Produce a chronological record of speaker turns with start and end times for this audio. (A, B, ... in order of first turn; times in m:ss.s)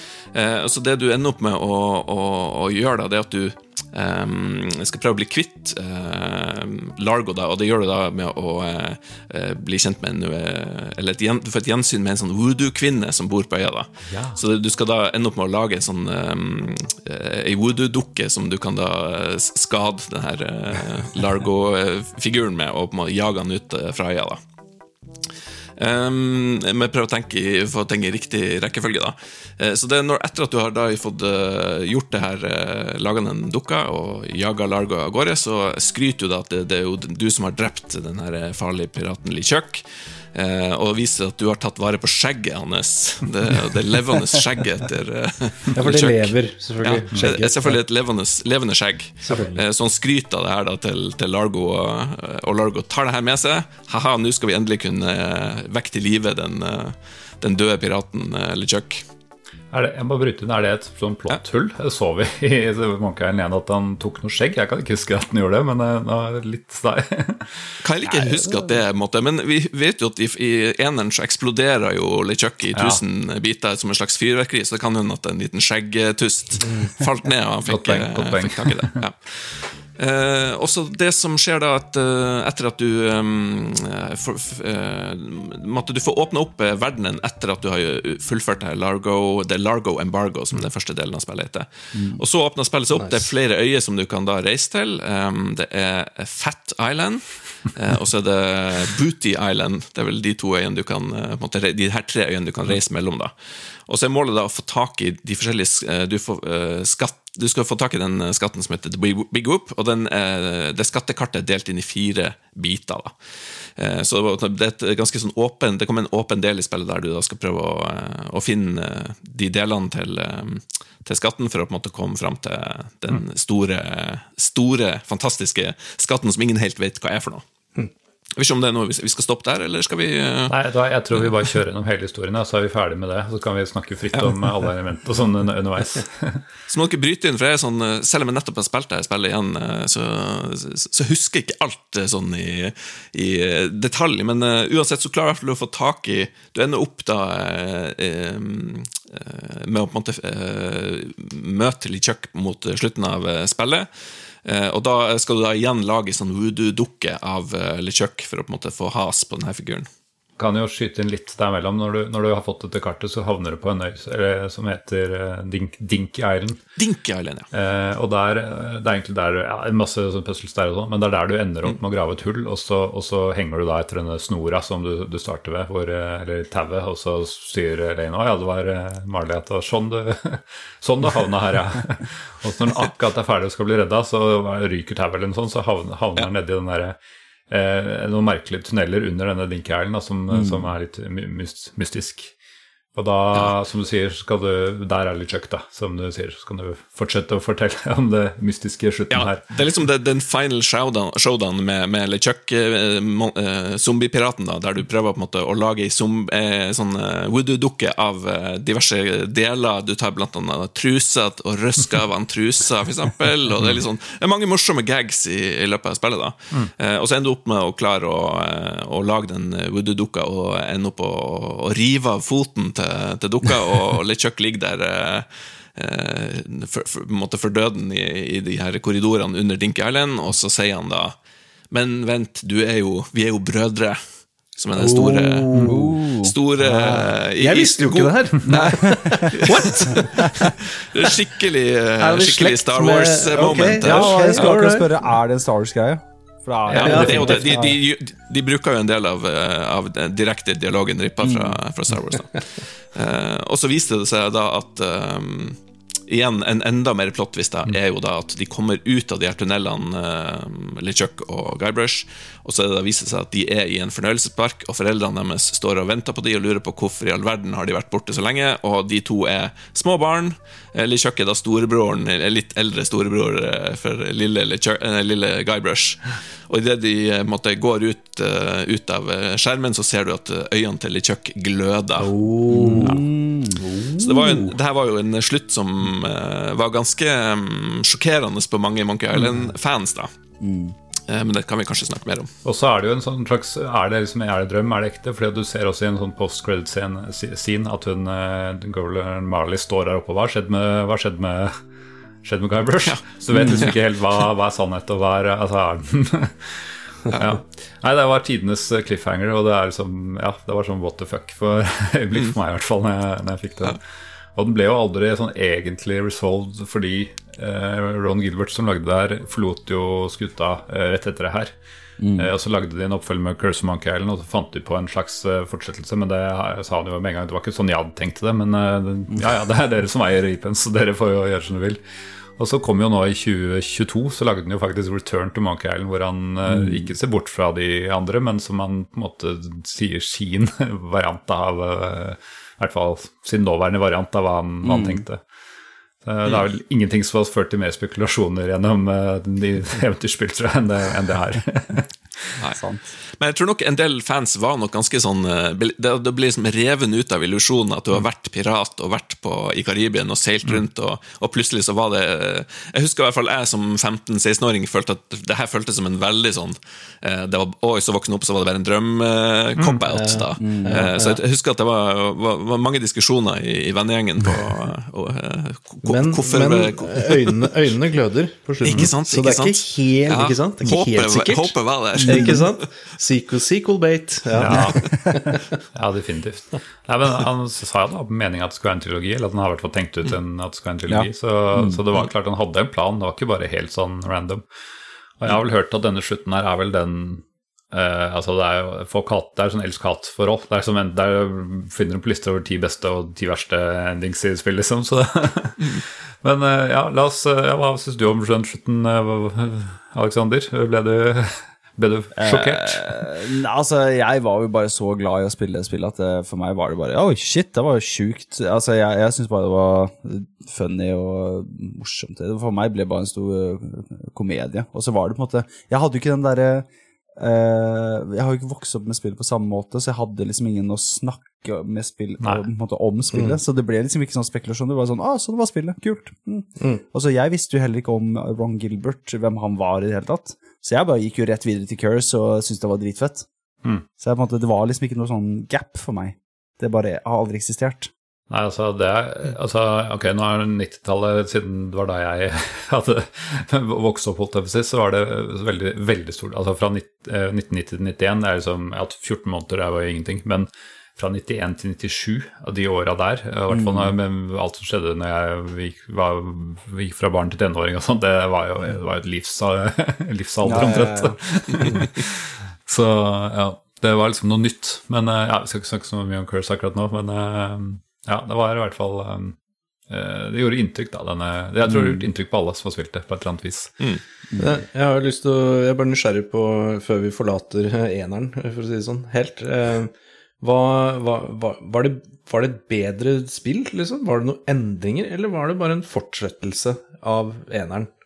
0:00.3-0:24.4 A
0:14.1-0:14.4 B
0:25.8-0:59.0 A
0:45.8-0:47.8 C
0:49.2-0:49.6 C
0:59.7-1:08.5 B
1:07.8-1:43.3 A
1:12.8-1:13.0 B
1:16.6-1:16.9 C
1:17.7-1:18.9 B
1:31.9-1:32.2 D
1:33.0-1:33.3 C
1:43.9-1:53.2 A
1:53.8-2:07.4 A
2:08.4-2:10.6 A
2:10.5-2:16.4 B
2:11.2-2:11.5 A
2:14.1-2:14.5 A
2:16.7-2:33.9 A
2:34.4-2:39.9 A
2:40.4-2:46.6 B
2:46.8-2:47.5 A
2:47.5-3:07.0 B
3:07.5-3:12.3 B
3:10.3-3:10.7 D
3:13.0-3:19.4 B
3:19.1-3:51.2 A
3:51.7-3:54.0 A
3:54.6-4:04.6 A
3:54.8-3:55.9 C
3:55.6-3:56.4 D
3:56.8-4:01.2 C
3:58.5-3:59.2 D
4:02.0-4:05.1 C
4:03.4-4:07.8 D
4:06.7-4:07.5 B
4:06.7-4:42.1 A
4:06.8-4:07.4 C
4:11.2-4:11.6 D
4:42.0-4:43.0 C
4:42.5-4:43.6 D
4:43.6-4:44.5 C
4:44.0-4:50.1 A
4:50.4-4:50.8 D
4:51.1-4:52.3 A
4:52.4-5:01.6 B
5:02.2-5:13.8 B
5:02.9-5:03.8 A
5:03.3-5:03.7 D
5:14.4-5:21.6 B
5:22.0-5:22.3 D
5:22.2-5:31.8 B
5:32.4-5:45.2 B
5:36.5-5:36.9 D
5:44.6-5:45.0 D
5:46.0-5:52.3 B
5:52.5-5:52.8 D
5:53.2-6:17.5 A
6:09.6-6:09.8 B
6:09.9-6:11.2 C
6:10.4-6:10.9 D
6:15.8-6:25.4 C
6:18.6-6:22.6 A
6:22.0-6:22.4 D
6:24.4-6:25.1 B
6:24.5-6:25.2 D
6:25.7-6:34.4 B
6:30.9-6:31.8 D
6:35.2-6:52.9 B
6:52.2-7:23.3 D
7:13.1-7:13.4 C
7:24.0-7:27.9 D
7:28.3-7:59.4 B
7:43.5-7:44.0 D
7:50.4-7:51.2 D
7:59.9-8:03.7 B
8:01.7-8:02.0 D
8:04.4-8:17.9 C